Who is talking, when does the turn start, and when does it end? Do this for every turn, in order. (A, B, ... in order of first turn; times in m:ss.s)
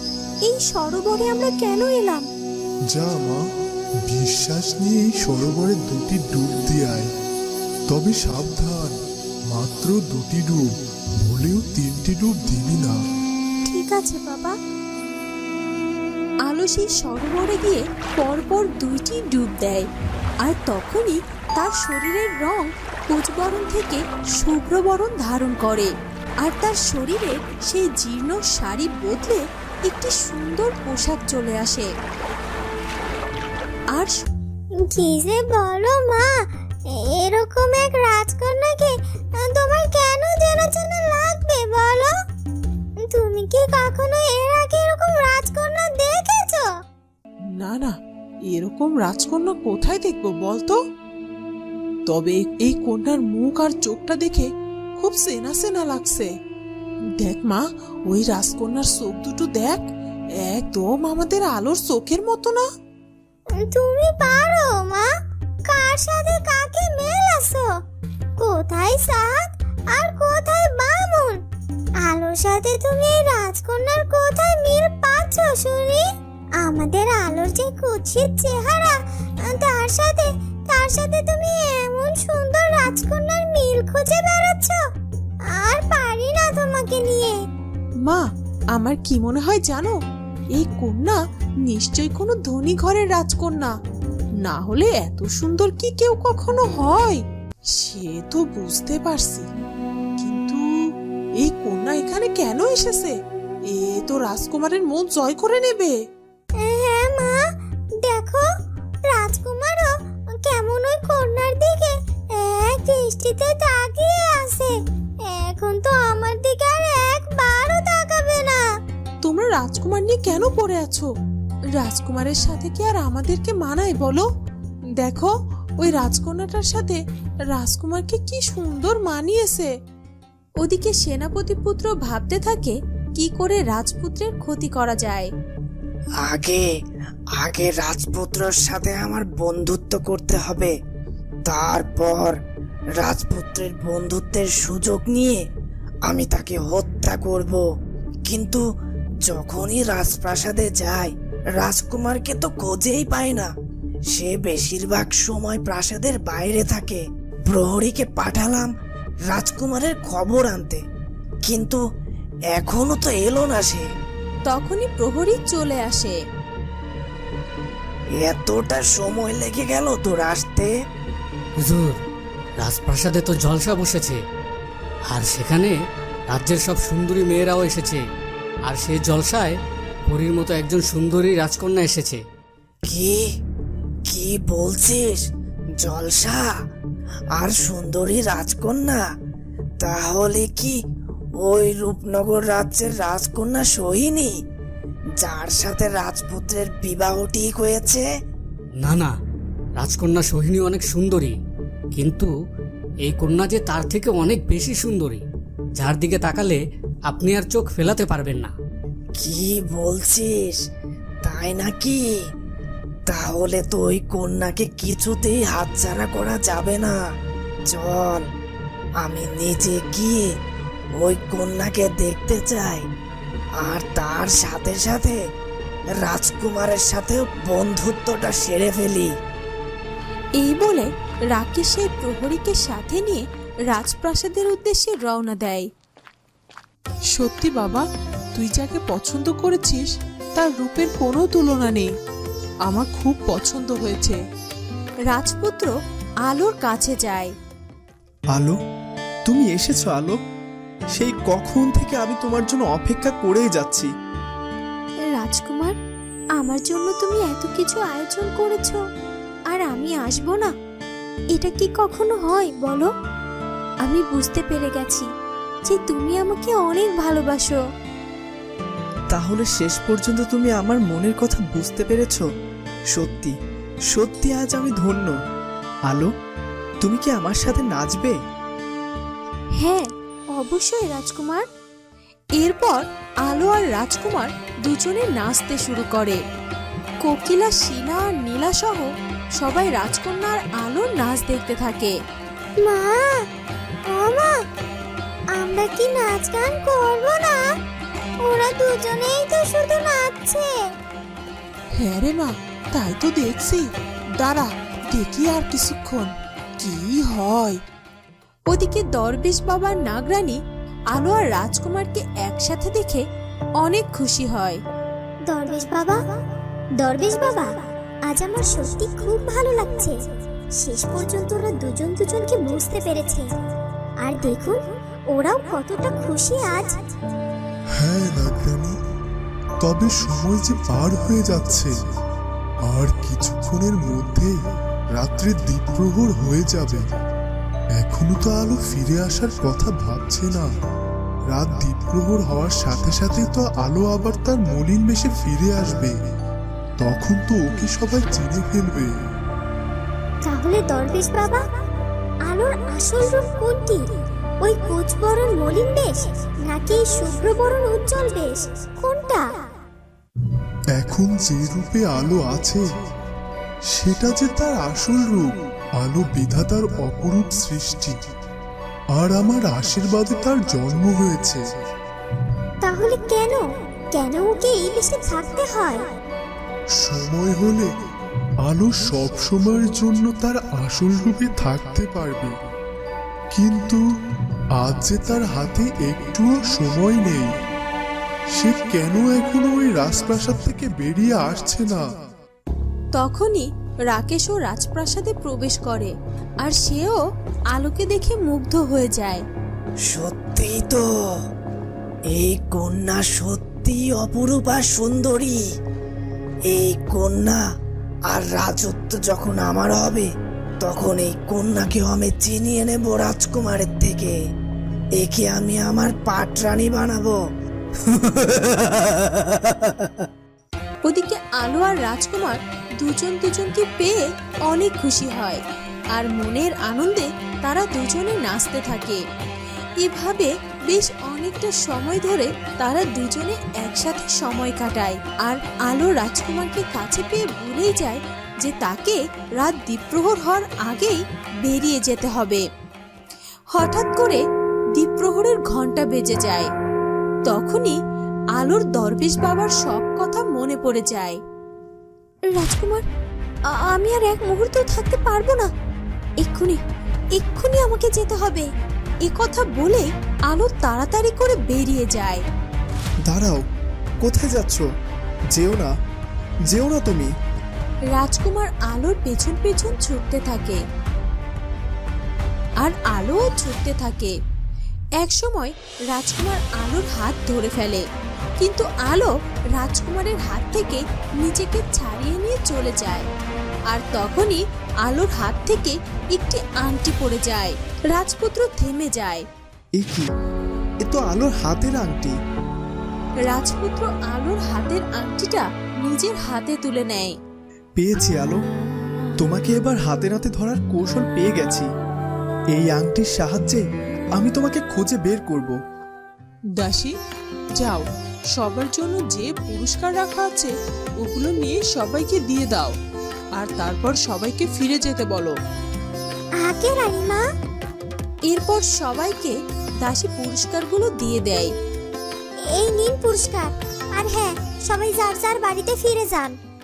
0:00.4-0:02.3 A
0:02.9-0:03.4 B
0:04.1-0:07.1 B
0:07.9-0:08.9 B
0:09.5-0:10.7 B
0:11.2-0:13.0 B
0:13.7-0:14.6 A
0:16.4-0:19.9 A
0:20.4-0:25.9 A
0:26.4-0:31.9 A
0:33.9-0:34.2 A
0:34.8-0:36.3 C
0:37.0-0:42.1 C
0:43.0-0:46.7 C
0:47.6-0:47.9 D
0:48.5-0:50.7 D
0:52.1-0:54.4 D
0:55.0-0:56.3 D
0:57.2-0:59.8 D
1:00.4-1:02.6 D
1:03.6-1:05.1 C
1:05.6-1:07.7 C
1:08.4-1:11.4 C
1:12.0-1:16.0 C
1:16.6-1:24.8 C
1:25.5-1:27.4 C
1:28.8-1:29.9 D
1:29.2-1:29.7 A
1:30.6-1:33.7 D
1:34.4-1:37.2 D
1:37.8-1:39.4 D
1:40.2-1:40.6 D
1:41.4-1:43.1 D
1:43.7-1:45.9 D
1:46.6-1:47.4 C
1:48.0-1:48.5 C
1:49.0-1:54.7 C
1:55.3-1:58.6 C
1:59.2-2:01.0 D
2:01.8-2:04.2 D
2:05.0-2:07.0 D
2:07.5-2:09.7 D
2:10.6-2:15.3 A
2:16.2-2:16.6 E
2:17.4-2:20.7 E
2:21.5-2:22.4 E
2:23.0-2:25.4 E
2:26.1-2:27.6 E
2:28.2-2:28.6 E
2:29.3-2:33.5 E
2:34.1-2:38.7 E
2:39.3-2:40.8 E
2:41.4-2:41.8 E
2:42.5-2:43.9 E
2:44.5-2:46.2 A
2:48.2-2:50.7 E
2:51.6-2:52.0 F
2:52.6-2:54.2 F
2:55.1-2:55.7 F
2:56.3-2:58.0 F
2:58.6-2:59.5 F
3:00.1-3:02.2 F
3:02.9-3:03.2 E
3:04.1-3:05.2 E
3:05.8-3:06.5 E
3:07.4-3:09.0 E
3:09.8-3:10.7 E
3:11.4-3:14.3 E
3:15.2-3:18.0 E
3:18.8-3:19.1 F
3:19.8-3:21.4 F
3:21.9-3:22.3 F
3:23.0-3:25.2 F
3:25.8-3:28.5 F
3:29.2-3:30.6 E
3:31.2-3:32.0 E
3:33.1-3:36.9 E
3:37.7-3:38.2 E
3:39.0-3:40.2 E
3:41.0-3:42.8 E
3:43.6-3:45.2 E
3:46.0-3:49.1 E
3:50.4-3:55.7 A
3:57.1-3:57.8 D
3:58.4-3:59.8 D
4:00.4-4:01.8 D
4:02.7-4:04.2 D
4:05.1-4:05.7 A
4:06.2-4:07.3 A
4:09.3-4:10.2 G
4:11.0-4:13.9 G
4:15.1-4:15.8 A
4:16.4-4:18.8 A
4:19.5-4:20.5 A
4:21.3-4:22.9 A
4:23.8-4:25.1 A
4:25.7-4:27.6 A
4:29.1-4:32.2 G
4:32.9-4:33.3 G
4:33.9-4:35.1 G
4:36.8-4:38.1 G
4:39.6-4:41.4 A
4:42.4-4:46.2 A
4:47.0-4:51.9 A
4:52.6-4:53.1 C
4:53.9-4:54.3 C
4:55.3-4:57.4 C
4:58.2-5:00.5 C
5:01.8-5:03.6 D
5:04.2-5:06.1 D
5:06.6-5:07.6 D
5:08.5-5:10.4 A
5:10.9-5:13.0 A
5:13.6-5:14.6 A
5:15.3-5:16.0 C
5:16.8-5:17.6 C
5:18.1-5:19.9 C
5:20.6-5:23.3 C
5:24.0-5:26.8 C
5:27.8-5:28.7 B
5:29.6-5:31.7 B
5:32.7-5:34.3 B
5:35.0-5:36.8 B
5:37.8-5:40.5 B
5:41.3-5:45.9 B
5:46.8-5:48.9 B
5:50.2-5:51.4 C
5:52.3-5:53.8 C
5:54.4-5:59.4 C
6:00.7-6:02.6 B
6:03.7-6:05.3 B
6:05.8-6:08.0 B
6:08.9-6:11.4 B
6:12.6-6:13.4 C
6:13.9-6:15.9 C
6:16.8-6:17.7 B
6:18.4-6:22.3 B
6:23.3-6:23.8 B
6:24.6-6:27.3 B
6:28.4-6:31.8 B
6:32.9-6:37.0 A
6:37.5-6:39.2 A
6:39.9-6:40.8 E
6:42.2-6:45.4 E
6:46.5-6:47.4 E
6:48.1-6:50.0 E
6:50.6-6:54.1 E
6:55.0-6:57.2 E
7:00.8-7:05.4 A
7:05.9-7:09.0 A
7:09.8-7:22.4 A
7:23.5-7:24.2 A
7:24.8-7:26.5 A
7:27.3-7:27.8 A
7:28.4-7:31.2 A
7:32.3-7:32.8 A
7:33.5-7:35.5 A
7:36.2-7:36.6 A
7:37.1-7:38.5 A
7:39.0-7:42.2 A
7:43.0-7:43.4 G
7:44.0-7:44.6 G
7:45.4-7:45.7 G
7:46.5-7:47.1 G
7:47.9-7:50.6 A
7:52.6-7:54.1 A
7:55.0-7:57.8 A
7:58.4-8:03.1 A
8:03.7-8:09.2 A
8:09.8-8:10.0 G
8:10.8-8:12.1 G
8:13.2-8:17.2 A
8:17.8-8:18.4 G
8:19.2-8:21.6 G
8:22.5-8:23.6 G
8:24.2-8:25.5 G
8:26.6-8:26.9 D
8:28.4-8:30.5 D
8:31.1-8:32.7 D
8:31.2-8:31.6 A
8:33.4-8:35.3 D
8:36.4-8:37.2 C
8:38.3-8:41.5 A
8:42.5-8:46.4 C